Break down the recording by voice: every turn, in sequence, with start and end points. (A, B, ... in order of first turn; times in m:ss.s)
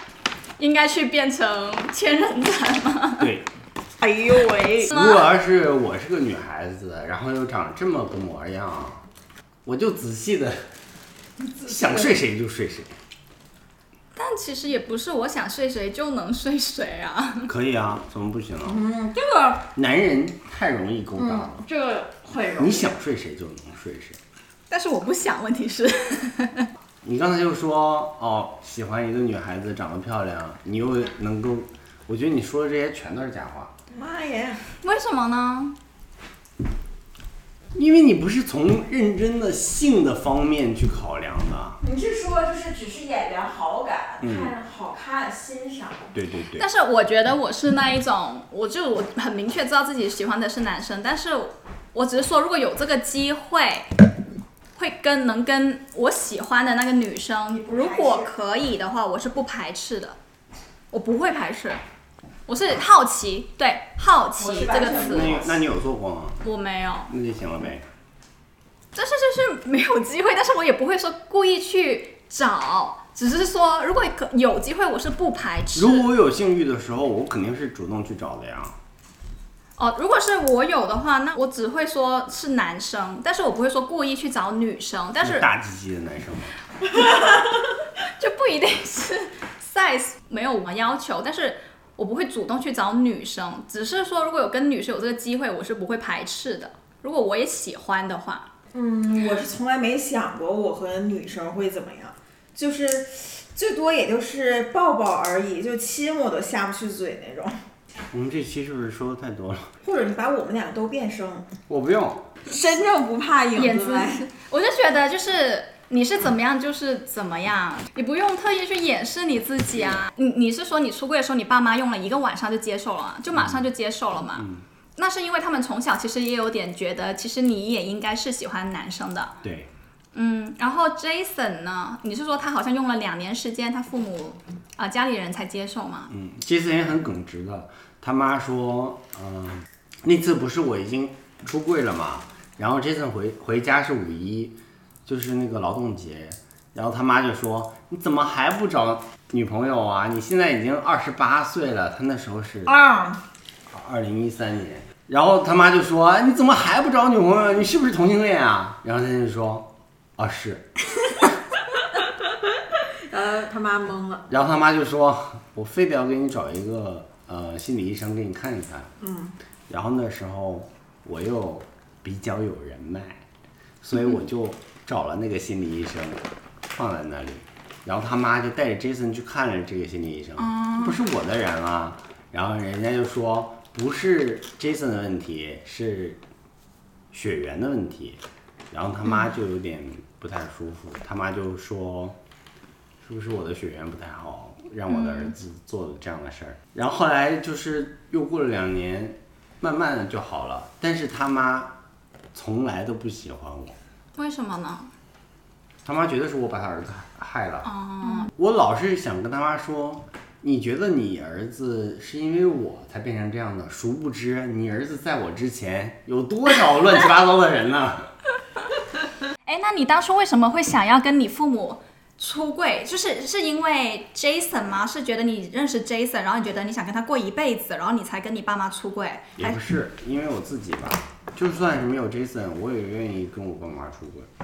0:00.6-0:03.3 A
0:03.2-0:03.5 B
0:04.0-0:04.9 C
0:04.9-0:09.0 B
0:04.9-0:05.3 A
0:09.6-0:10.6 B
0:11.6-0:12.9 B
0:11.6-0:12.2 C
0:14.2-0:17.5 A
0:17.5-0:18.8 B
0:18.6-0:19.7 C
0:19.8-0:21.6 B
0:21.2-0:22.9 C
0:22.6-0:24.2 B
0:24.7-0:26.7 A
0:27.0-0:33.7 B
0:33.9-0:34.6 C
0:34.8-0:35.8 A
0:37.7-0:41.8 B
0:41.8-0:46.1 C
0:44.2-0:44.5 B
0:46.1-0:46.7 B
0:46.6-0:53.9 A
0:54.8-1:00.2 A
0:57.5-0:58.3 C
1:00.9-1:01.8 A
1:02.5-1:05.5 A
1:04.4-1:05.5 C
1:04.9-1:06.4 B
1:06.4-1:07.1 A
1:07.1-1:07.9 B
1:08.9-1:16.1 A
1:15.8-1:18.8 B
1:19.8-1:25.5 A
1:25.2-1:26.6 B
1:28.1-1:38.5 A
1:38.7-1:47.6 C
1:48.1-1:49.7 B
1:49.8-1:51.5 C
1:51.7-1:52.3 B
1:52.4-1:54.2 C
1:53.6-2:09.4 A
1:59.8-2:00.1 B
2:03.3-2:03.6 B
2:04.4-2:04.6 B
2:09.4-2:09.7 B
2:10.1-2:16.1 A
2:16.1-2:32.8 B
2:32.6-2:33.2 C
2:33.7-2:40.7 B
2:43.1-2:44.3 C
2:44.3-2:48.9 B
2:49.0-2:49.4 C
2:49.7-2:53.2 B
2:53.8-3:06.2 B
3:00.4-3:01.0 A
3:07.1-3:12.2 B
3:13.0-3:21.8 B
3:14.9-3:15.4 A
3:22.3-3:23.8 B
3:24.2-3:24.9 A
3:25.8-3:27.7 B
3:27.6-3:28.3 A
3:28.3-3:38.1 B
3:39.5-3:49.6 A
3:49.4-3:54.3 B